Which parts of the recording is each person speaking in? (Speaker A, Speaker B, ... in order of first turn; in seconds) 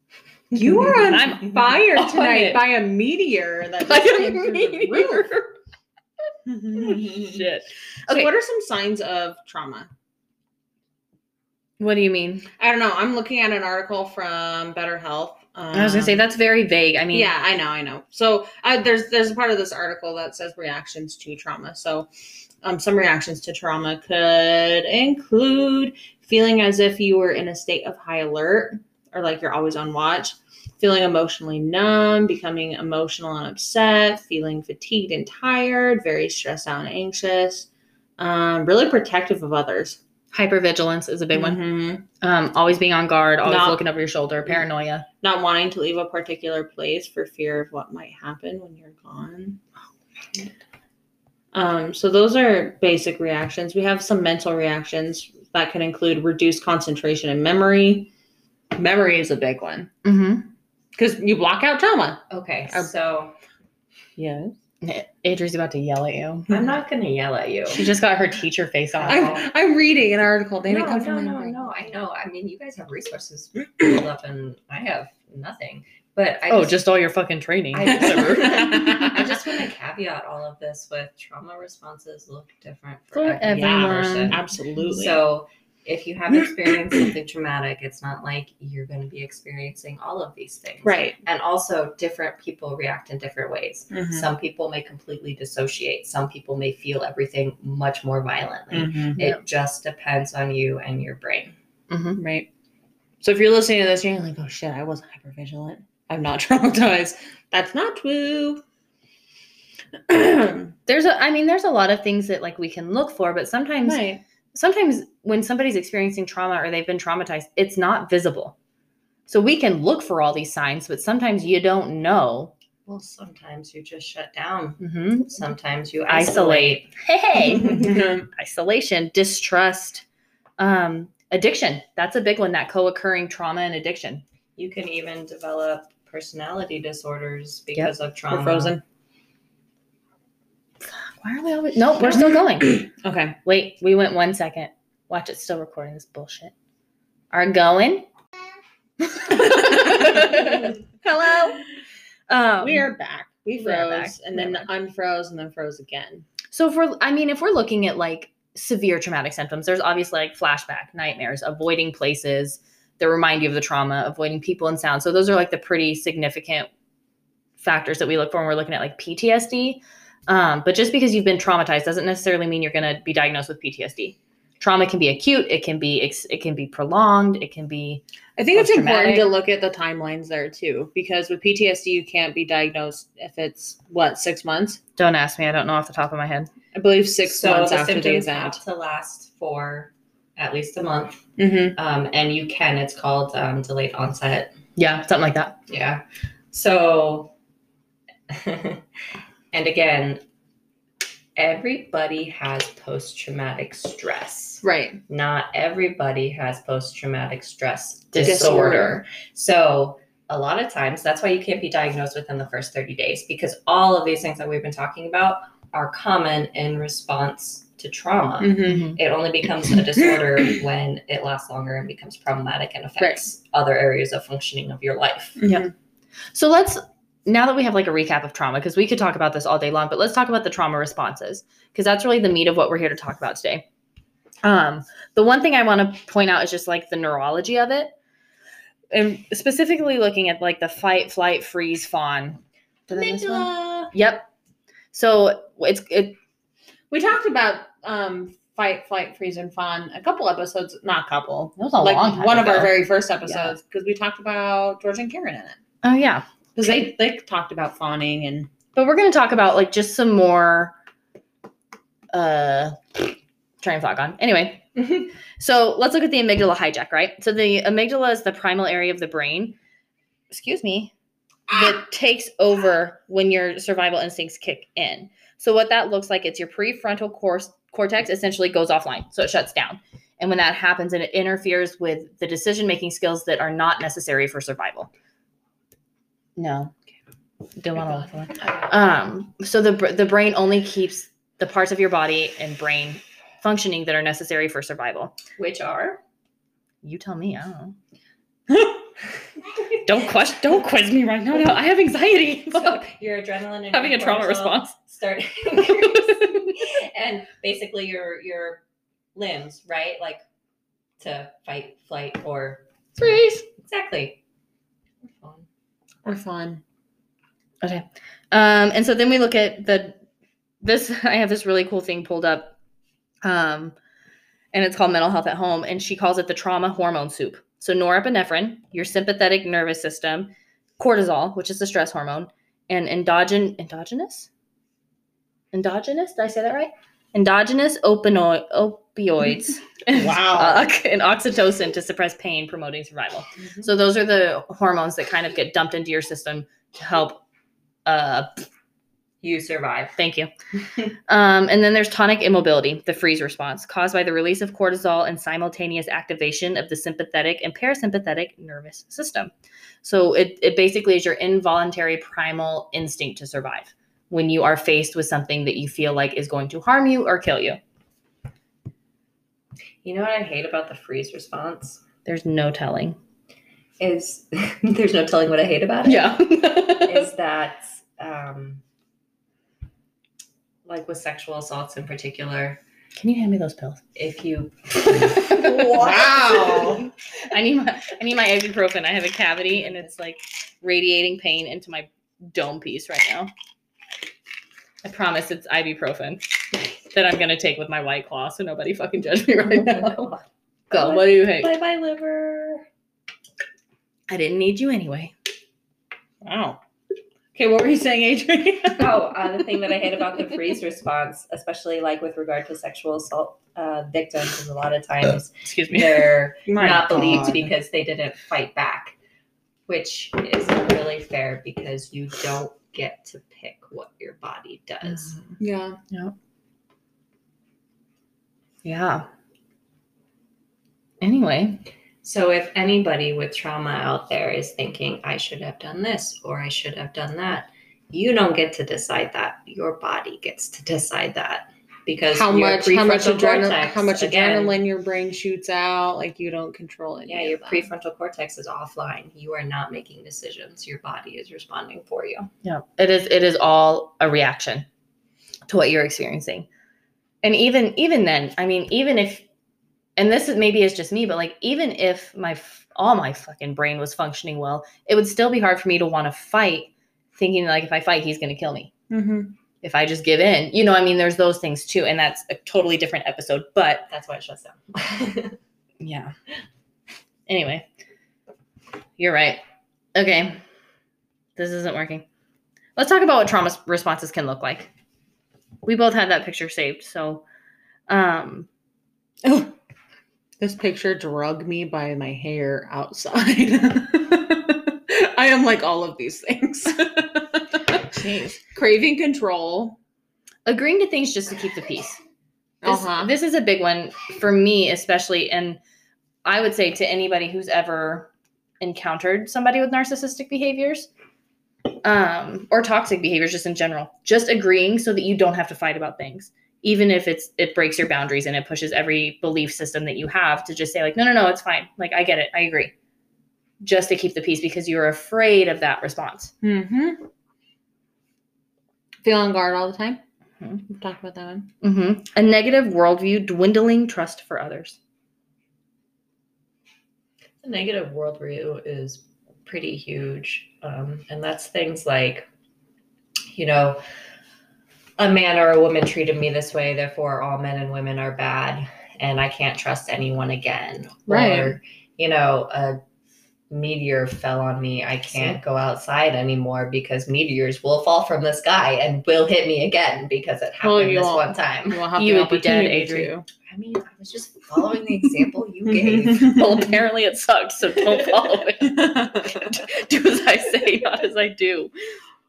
Speaker A: 0.5-5.3, 6.5-7.5, 8.1-9.9, 12.6-16.2, 17.1-22.1, 22.6-40.0, 41.3-42.0, 43.4-43.8, 45.2-49.6, 51.5-58.1, 58.7-59.9, 61.0-62.9, 64.2-64.5, 69.1-71.6, 78.1-79.2, 83.4-85.2, 90.8-91.2, 93.9-94.3, 98.7-99.2, 102.2-102.5, 103.2-108.6, 110.1-110.7, 113.8-114.2, 127.6-128.2, 138.3-138.8, 142.1-143.4, 149.5-150.3, 152.6-156.2, 178.4-184.8, 186.7-188.6, 191.4-191.8, 204.6-205.0, 208.2-209.0, 218.4-218.9, 225.4-225.7, 242.9-243.9, 246.9-255.6, 256.6-258.5, 271.5-271.8, 298.5-298.8, 316.0-316.6, 339.9-340.7, 385.7-386.9, 406.2-406.6, 407.3-409.1, 416.5-417.5, 425.4-425.8, 442.1-447.6, 468.9-469.3, 489.2-489.5, 490.4-499.8, 502.6-503.1, 526.4-527.1, 529.0-530.0, 530.7-531.5, 551.1-551.6, 560.6-563.2, 565.7-566.4, 568.6-569.5
Speaker B: 0.8-2.7, 3.9-5.5, 6.7-8.3, 11.8-12.5, 15.7-17.3, 40.3-41.6, 42.2-45.1, 60.0-60.5, 64.8-66.6, 67.7-69.3, 76.5-79.2, 83.1-84.4, 101.9-102.2, 110.9-114.0, 114.5-118.5, 119.3-122.5, 124.8-125.3, 126.1-130.0, 130.6-134.2, 140.8-142.9, 143.4-146.5, 147.3-148.1, 149.2-151.6, 152.3-152.9, 153.6-154.7, 156.5-166.7, 167.6-179.3, 185.0-186.5, 194.8-195.6, 208.1-208.6, 218.6-219.0, 226.3-233.6, 234.4-237.9, 238.9-244.3, 244.9-246.2, 251.6-253.5, 255.8-256.2, 258.7-260.7, 262.1-264.8, 265.4-269.6, 270.3-270.9, 271.5-284.9, 286.4-286.7, 287.6-295.2, 296.8-297.8, 299.8-302.8, 303.7-304.7, 305.7-306.5, 313.0-313.5, 317.6-320.0, 320.6-322.6, 323.2-323.8, 324.5-334.3, 335.5-347.2, 347.9-348.4, 350.0-350.3, 351.1-359.3, 359.8-367.6, 372.1-373.0, 375.8-377.1, 382.9-383.8, 385.1-385.7, 387.3-393.3, 394.8-400.1, 400.7-401.5, 404.1-405.1, 415.4-416.2, 424.9-425.2, 428.6-429.1, 431.0-431.6, 452.4-454.6, 455.5-456.5, 457.2-459.2, 460.0-468.7, 469.6-473.9, 475.8-476.1, 477.3-477.6, 479.0-479.4, 479.9-480.4, 481.4-482.0, 482.8-484.7, 485.6-487.2, 487.9-488.5, 500.4-502.0, 502.6-505.6, 506.2-508.1, 508.6-510.9, 511.8-522.7, 523.6-526.3, 531.6-534.8, 561.9-563.1, 566.2-571.7
Speaker C: 62.3-63.4, 66.5-67.8, 69.0-69.5, 70.6-76.8, 77.7-101.5, 122.8-126.9, 134.6-138.8, 187.2-194.5, 195.7-197.3, 198.3-198.8, 199.5-200.2, 201.3-225.4, 243.0-243.5, 295.4-296.0, 302.5-308.6, 309.1-310.2, 311.0-312.6, 313.5-314.2, 315.0-315.4, 349.2-349.9, 369.8-371.8, 373.8-378.6, 380.6-382.6, 383.9-386.9, 389.5-389.9, 399.5-402.6, 408.8-418.9, 419.7-425.2, 432.0-444.6, 447.1-452.3, 473.9-475.4, 537.4-542.3, 543.3-543.8, 545.0-552.8, 553.5-561.9, 563.5-566.7